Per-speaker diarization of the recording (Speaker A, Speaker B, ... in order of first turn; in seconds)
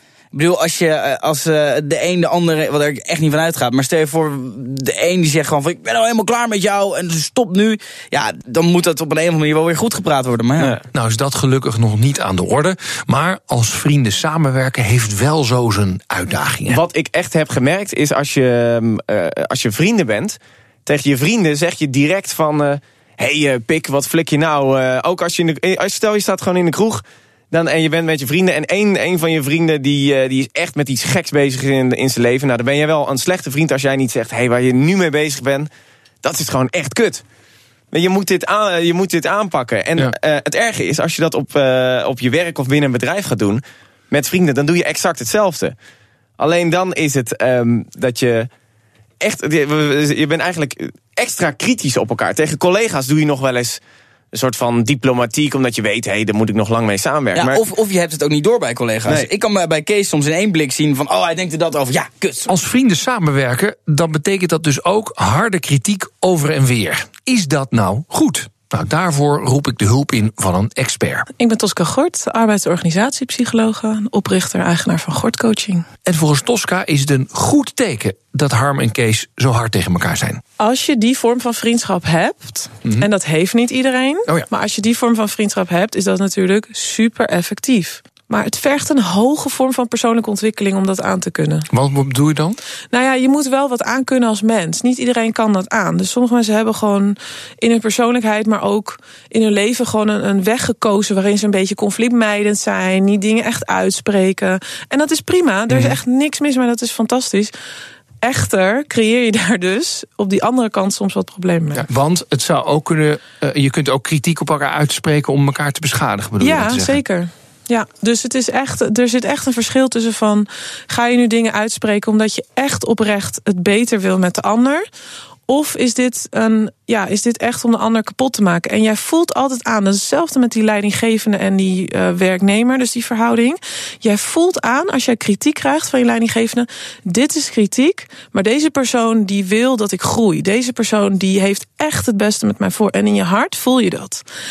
Speaker A: 0.3-10.8, 57.4-62.5
Speaker B: 10.6-16.8, 62.5-71.3, 76.1-80.4, 91.7-92.6, 105.7-106.0, 111.7-117.0
Speaker C: 16.7-35.7, 36.2-37.2, 37.9-45.8, 46.4-48.5, 49.2-53.8, 54.3-57.6
Speaker D: 71.4-75.9, 80.6-91.7, 92.9-107.5, 108.2-111.9, 116.4-124.8, 125.5-144.2